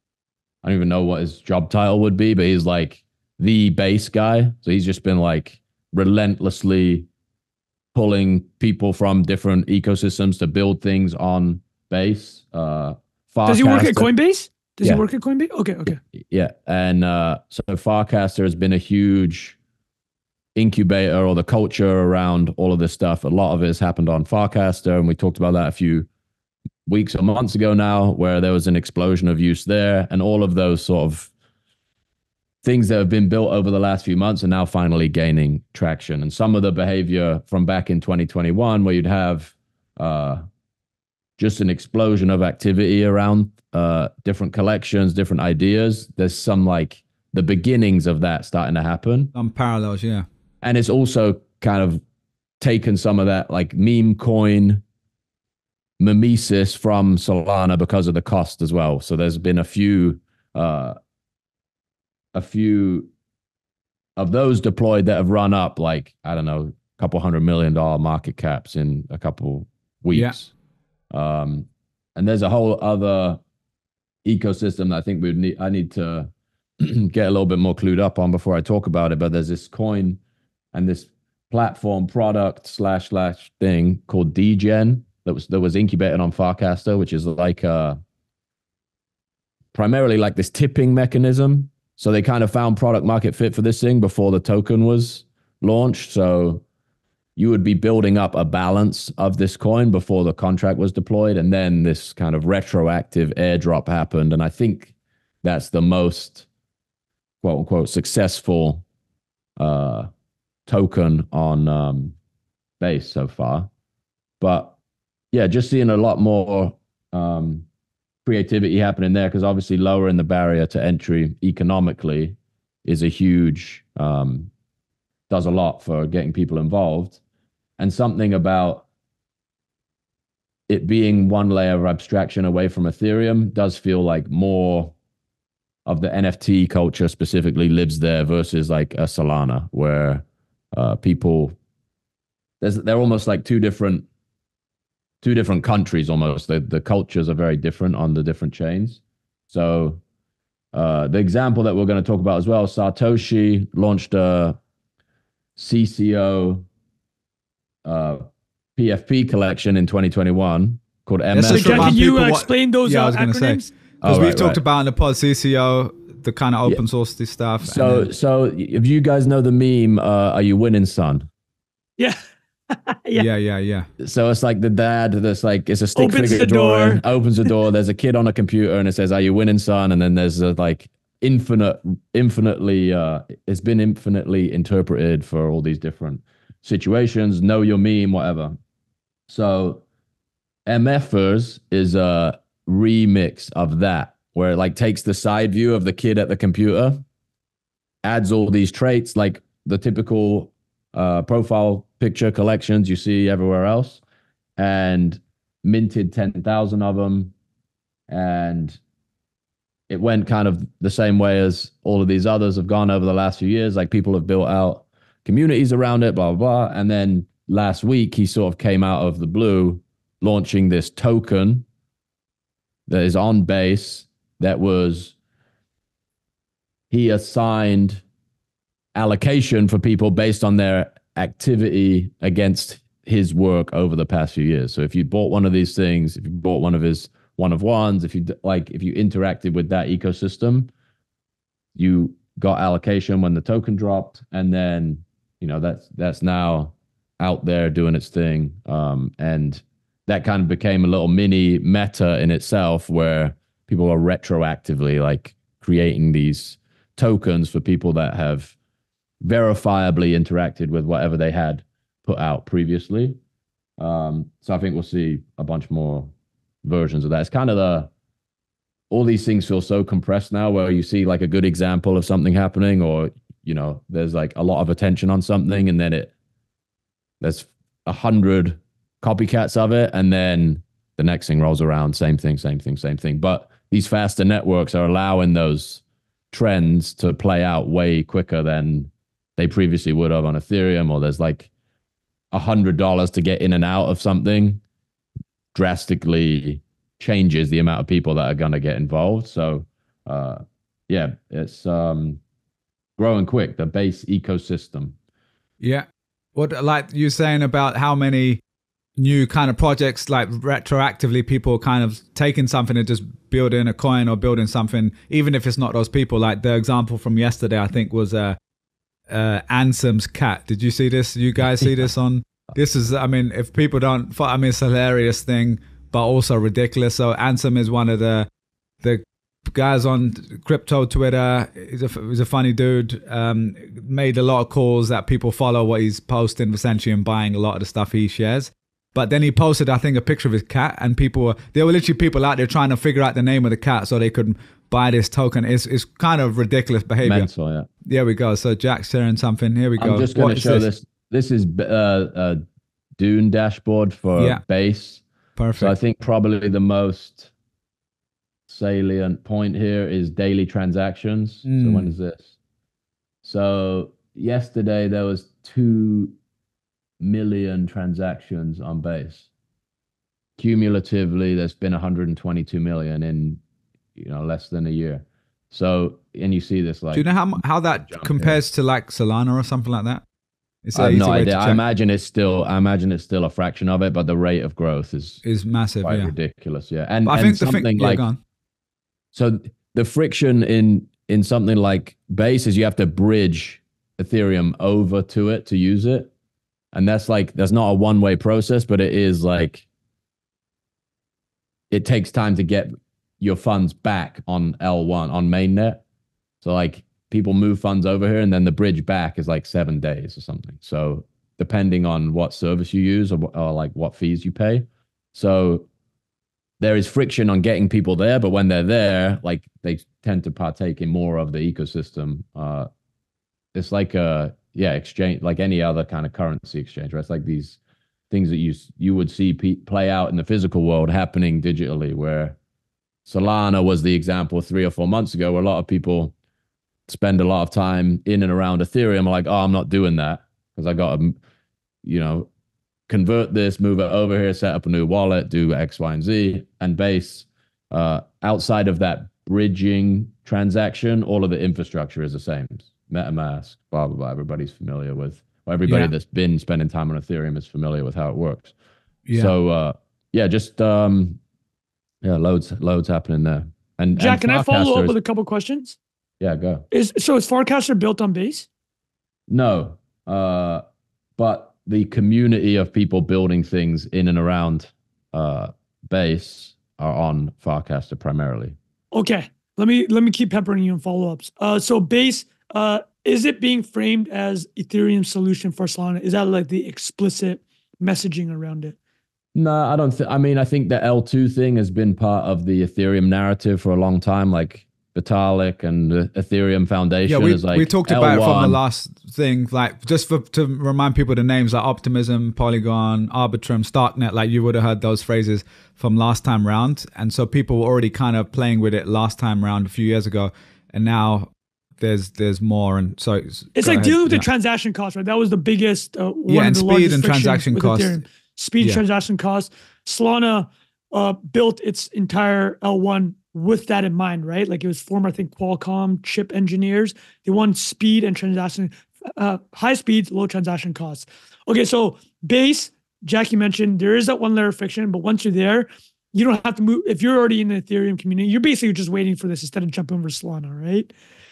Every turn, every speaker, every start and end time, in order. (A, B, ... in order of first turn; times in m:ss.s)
0:00.6-0:07.1 A
0:07.9-0:14.1 A
0:13.5-0:16.0 B
0:15.9-0:19.6 A
0:20.6-0:26.1 A
0:26.9-0:31.3 A
0:32.6-0:40.4 A
0:41.4-0:49.3 A
0:49.3-0:50.2 C
0:50.6-0:52.0 A
0:52.6-0:54.8 A
0:56.0-1:01.0 A
1:02.3-1:03.1 A
1:04.2-1:10.5 A
1:10.1-1:10.4 C
1:11.1-1:13.4 A
1:14.2-1:20.2 A
1:20.7-1:28.0 A
1:29.7-1:36.6 A
1:37.4-1:44.9 A
1:45.4-1:46.4 A
1:47.4-1:48.8 A
1:49.6-1:50.1 A
1:50.7-1:52.1 A
1:52.8-1:53.7 A
1:54.4-1:54.7 A
1:55.3-1:57.6 A
1:58.2-2:04.5 A
2:05.3-2:07.2 A
2:07.8-2:08.8 A
2:10.7-2:14.9 A
2:15.8-2:21.5 A
2:22.6-2:24.1 A
2:25.2-2:30.0 A
2:30.7-2:34.6 A
2:35.6-2:36.6 A
2:37.8-2:38.2 A
2:38.8-2:42.0 A
2:41.3-2:48.1 C
2:41.5-2:43.7 B
2:44.0-2:44.6 A
2:47.6-2:51.3 A
2:52.7-2:53.3 B
2:53.2-2:53.9 C
2:54.0-3:08.6 A
2:55.9-2:57.0 B
3:09.3-3:09.8 A
3:10.7-3:17.0 A
3:18.0-3:24.0 A
3:24.6-3:27.3 A
3:28.1-3:28.8 A
3:29.9-3:41.6 A
3:42.9-3:45.1 A
3:46.9-3:48.0 A
3:48.9-4:00.7 A
4:01.8-4:18.5 A
4:19.2-4:23.2 A
4:23.8-4:26.1 A
4:26.6-4:27.9 A
4:28.9-4:36.1 A
4:37.2-4:51.5 A
4:52.3-4:54.6 A
4:55.5-5:02.2 A
5:03.0-5:04.9 A
5:05.6-5:08.4 C
5:09.0-5:18.4 C
5:19.1-5:28.3 C
5:28.8-5:47.3 C
5:47.0-5:47.7 A
5:47.8-5:50.6 C
5:49.8-5:52.4 A
5:53.0-5:55.0 A
5:55.4-5:55.7 C
5:55.6-5:57.3 A
5:58.5-6:02.3 A
6:01.4-6:01.9 C
6:03.2-6:06.1 A
6:07.0-6:09.2 A
6:10.4-6:13.4 A
6:14.0-6:17.0 A
6:16.9-6:20.0 C
6:17.8-6:18.4 A
6:20.6-6:21.6 C
6:20.7-6:25.2 A
6:25.2-6:26.1 C
6:25.8-6:28.0 A
6:27.0-6:28.2 C
6:29.1-6:36.1 A
6:36.7-6:39.6 A
6:41.7-6:45.8 A
6:46.4-6:55.7 A
6:56.6-7:02.7 A
7:03.5-7:07.6 A
7:08.1-7:12.4 A
7:13.0-7:16.1 A
7:16.9-7:21.2 A
7:21.8-7:22.3 A
7:22.9-7:38.5 A
7:39.1-7:39.3 C
7:39.1-7:41.2 A
7:42.0-7:45.0 A
7:44.0-7:45.8 B
7:46.2-7:46.6 A
7:46.7-7:48.5 B
7:49.3-7:50.6 A
7:51.2-7:58.6 A
7:58.9-8:08.7 B
8:09.3-8:18.6 A
8:17.1-8:34.2 C
8:33.6-9:00.9 B
8:36.3-8:38.0 C